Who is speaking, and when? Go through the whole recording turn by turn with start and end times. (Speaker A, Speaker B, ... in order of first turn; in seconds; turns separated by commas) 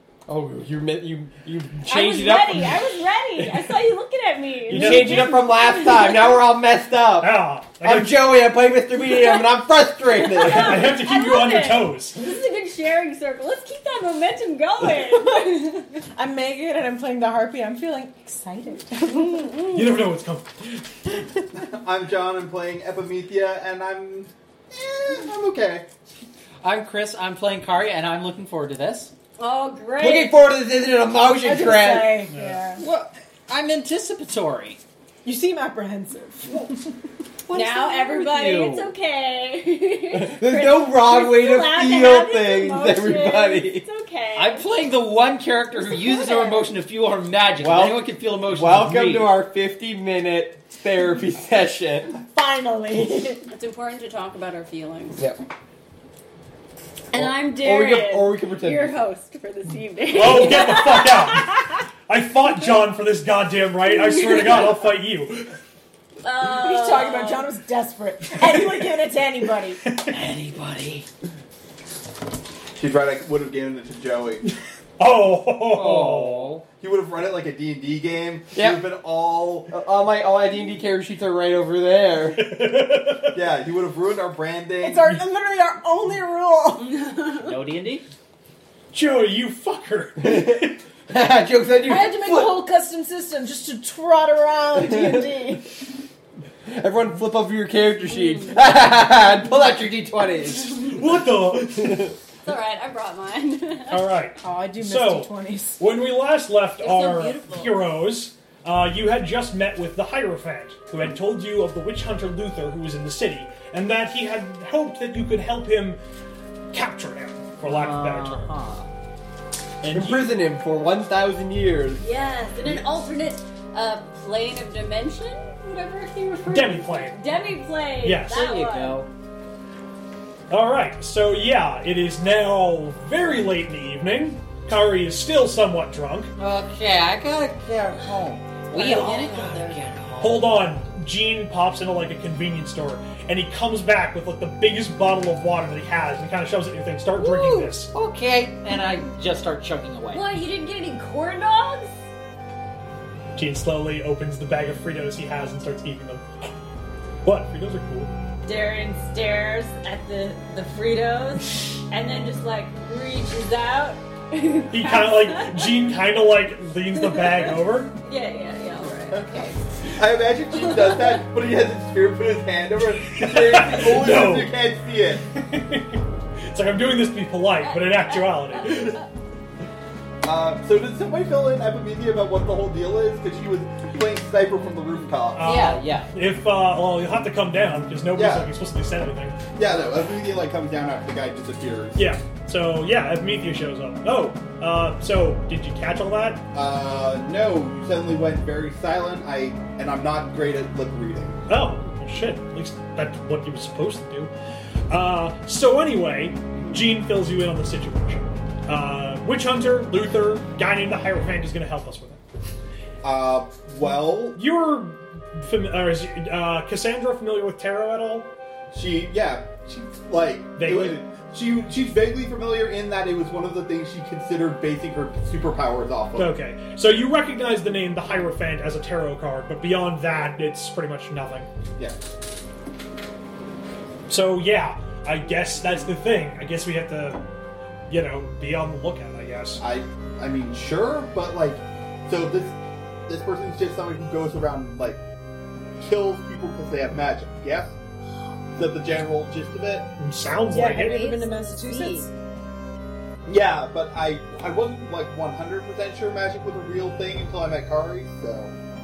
Speaker A: 0.3-2.9, Speaker B: 1.9-6.4, Speaker C: 3.4-3.9, Speaker C: 4.7-5.4, Speaker A: 4.7-10.9, Speaker C: 7.2-8.3, Speaker B: 9.0-16.0, Speaker C: 10.4-12.3, Speaker D: 16.2-19.6, Speaker B: 19.0-19.9, Speaker C: 19.7-21.2, Speaker E: 21.6-25.9, Speaker F: 26.6-29.1, Speaker B: 29.4-30.4, Speaker A: 30.0-32.3, Speaker D: 31.4-32.8, Speaker C: 32.3-32.6, Speaker F: 32.8-34.8, Speaker D: 35.2-36.5, Speaker F: 37.5-38.9, Speaker B: 37.5-44.7, Speaker A: 40.1-43.9, Speaker F: 44.3-49.4, Speaker B: 46.0-46.6, Speaker A: 47.6-52.2, Speaker D: 52.3-53.5, Speaker B: 53.5-55.2, Speaker A: 55.2-55.4, Speaker B: 57.1-61.8, Speaker A: 57.1-59.0, Speaker C: 60.1-65.5, Speaker B: 66.2-67.5, Speaker D: 66.4-69.8, Speaker C: 68.4-68.8, Speaker C: 69.8-70.2, Speaker F: 70.1-71.1, Speaker E: 72.8-74.5, Speaker C: 75.0-76.5, Speaker F: 75.7-76.7, Speaker E: 76.8-79.7, Speaker A: 78.5-78.8, Speaker A: 79.7-82.5, Speaker C: 82.4-83.4, Speaker E: 83.3-85.1, Speaker D: 84.8-87.0, Speaker F: 87.4-88.1, Speaker C: 88.9-90.8, Speaker A: 90.2-92.6, Speaker D: 91.8-95.7, Speaker A: 94.8-95.4, Speaker A: 96.7-100.9, Speaker B: 98.3-98.5, Speaker C: 100.7-102.1, Speaker A: 101.8-102.1, Speaker B: 102.4-104.1, Speaker C: 103.9-116.0, Speaker D: 104.4-105.8, Speaker B: 106.8-107.8, Speaker C: 116.7-118.5, Speaker F: 117.6-118.9, Speaker C: 119.8-120.4, Speaker A: 119.9-122.0, Speaker B: 122.0-129.0, Speaker C: 126.5-127.3, Speaker C: 128.0-128.5, Speaker F: 128.3-129.1, Speaker C: 130.5-136.3, Speaker F: 136.4-138.2, Speaker D: 137.7-138.4, Speaker F: 138.7-140.6, Speaker B: 138.7-139.8, Speaker C: 140.2-147.9, Speaker F: 147.2-150.3, Speaker B: 150.1-151.9, Speaker C: 153.4-156.2, Speaker C: 157.2-158.1, Speaker B: 158.5-165.8, Speaker C: 164.7-167.9, Speaker B: 167.0-169.6, Speaker E: 169.9-175.3, Speaker B: 170.5-171.2, Speaker C: 173.1-174.6, Speaker C: 175.3-179.0, Speaker B: 177.6-179.0, Speaker E: 180.2-185.4, Speaker C: 185.3-189.4, Speaker B: 185.4-185.8, Speaker F: 185.4-186.1, Speaker E: 188.2-188.5, Speaker E: 189.6-192.1, Speaker C: 192.0-196.4, Speaker E: 196.5-201.4, Speaker C: 201.5-204.3, Speaker C: 204.9-212.2, Speaker E: 213.0-214.4, Speaker C: 214.3-218.3, Speaker E: 218.7-226.3, Speaker C: 220.6-221.0, Speaker C: 226.2-231.5, Speaker C: 234.1-237.2, Speaker C: 237.9-239.6, Speaker E: 239.6-245.0, Speaker E: 245.8-247.8, Speaker E: 248.6-249.9, Speaker C: 250.0-251.1, Speaker D: 250.5-252.1, Speaker B: 250.6-252.1, Speaker E: 253.3-258.6